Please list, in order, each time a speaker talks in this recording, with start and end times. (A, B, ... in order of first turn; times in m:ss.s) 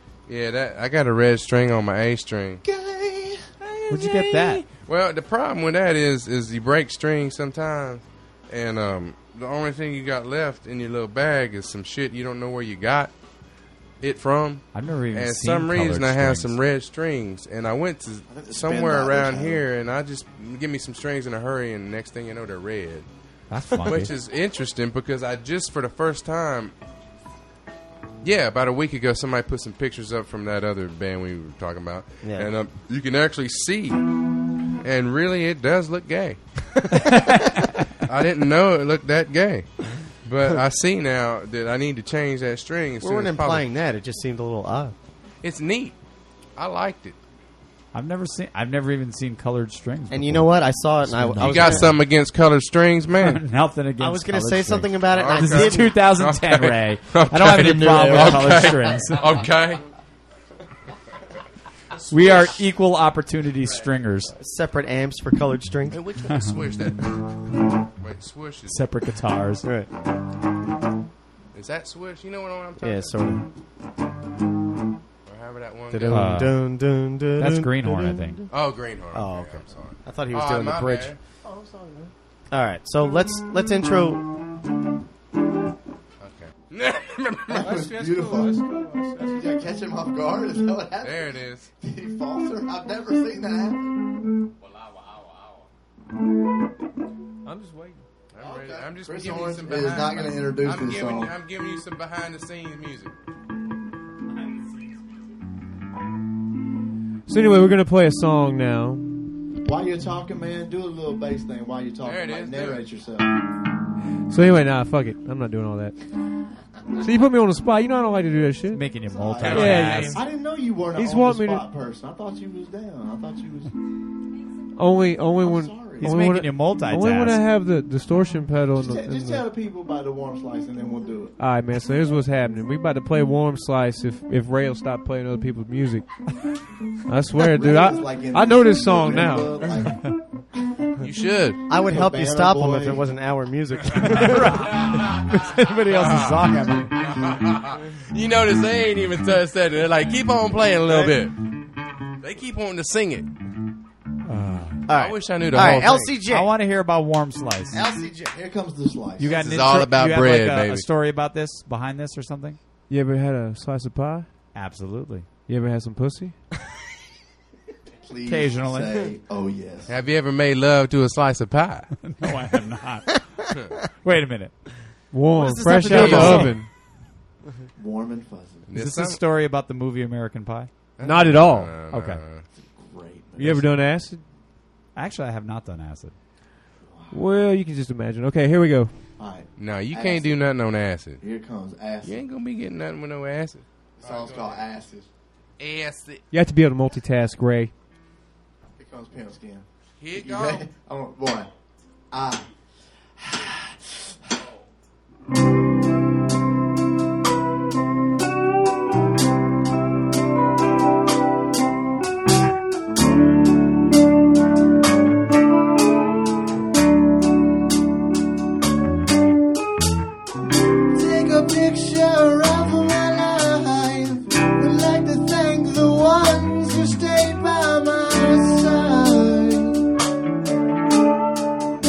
0:00.3-0:02.6 A
0:02.6-0:04.4 B
0:03.9-0:04.6 C
0:04.7-0:13.1 A
0:14.0-0:23.1 A
0:14.7-0:16.5 C
0:18.3-0:19.6 D
0:23.5-0:24.1 C
0:23.8-0:26.7 A
0:28.2-0:34.0 A
0:32.2-0:32.5 E
0:34.8-0:37.3 A
0:37.0-0:37.5 E
0:38.0-0:43.6 A
0:43.0-0:44.9 E
0:45.4-0:45.9 A
0:46.6-0:47.2 A
0:47.9-0:50.5 C
0:50.1-0:52.0 E
0:51.1-0:51.9 C
0:51.4-0:53.4 A
0:53.2-0:59.4 C
0:54.0-0:55.9 E
0:55.1-0:59.8 A
0:57.5-0:58.7 D
1:02.1-1:04.3 C
1:04.4-1:06.0 E
1:05.9-1:07.2 A
1:08.0-1:08.8 A
1:08.7-1:09.6 C
1:09.6-1:09.9 E
1:11.5-1:13.2 A
1:12.8-1:13.4 E
1:15.2-1:16.4 A
1:15.9-1:18.4 E
1:16.1-1:16.6 C
1:17.4-1:18.4 C
1:18.5-1:21.2 A
1:19.1-1:21.1 E
1:21.4-1:22.1 D
1:22.5-1:24.3 E
1:26.2-1:27.7 A
1:27.5-1:33.9 D
1:27.6-1:29.4 F
1:31.0-1:31.7 A
1:37.5-1:38.0 F
1:38.3-1:43.2 A
1:38.4-1:41.3 D
1:47.3-1:49.3 F
1:49.6-1:53.3 D
1:52.0-1:52.8 A
1:54.3-1:56.0 F
1:57.0-1:58.8 F
1:58.7-2:00.2 C
1:59.1-2:03.7 D
1:59.4-2:00.2 A
1:59.5-2:00.2 F
2:00.9-2:01.7 F
2:04.8-2:09.5 F
2:05.4-2:06.2 D
2:06.0-2:07.4 C
2:08.8-2:11.3 D
2:11.4-2:16.0 F
2:17.1-2:19.7 F
2:17.4-2:20.2 D
2:21.0-2:21.6 A
2:21.7-2:24.9 E
2:21.7-2:23.1 D
2:24.0-2:26.9 C
2:24.7-2:25.1 A
2:25.9-2:26.4 A
2:27.0-2:31.4 A
2:32.2-2:33.3 A
2:34.2-2:34.8 C
2:34.9-2:36.5 E
2:34.9-2:36.1 A
2:35.6-2:37.8 C
2:37.7-2:39.5 D
2:39.2-2:42.6 C
2:39.3-2:40.8 A
2:42.9-2:44.3 F
2:44.5-2:45.3 C
2:45.5-2:46.4 F
2:48.0-2:49.9 D
2:48.2-2:49.0 C
2:49.9-2:51.9 A
2:52.0-2:53.5 C
2:54.0-2:54.5 C
2:55.1-2:56.7 F
2:55.4-2:56.5 E
2:55.6-2:56.6 C
2:55.9-2:56.5 A
2:57.8-2:58.7 D
2:58.7-2:59.2 A
2:58.7-3:00.7 C
3:01.0-3:02.4 A
3:01.0-3:01.7 F
3:01.9-3:02.2 C
3:02.8-3:03.7 D
3:03.4-3:04.2 F
3:04.9-3:06.1 C
3:06.8-3:07.2 D
3:07.1-3:09.0 F
3:09.2-3:10.4 D
3:09.6-3:11.2 A
3:11.2-3:12.2 D
3:12.0-3:14.6 A
3:14.0-3:15.1 D
3:15.6-3:16.2 A
3:16.3-3:17.7 F
3:18.8-3:21.5 D
3:20.0-3:20.7 A
3:22.1-3:22.5 D
3:23.2-3:24.2 D
3:40.9-3:49.8 B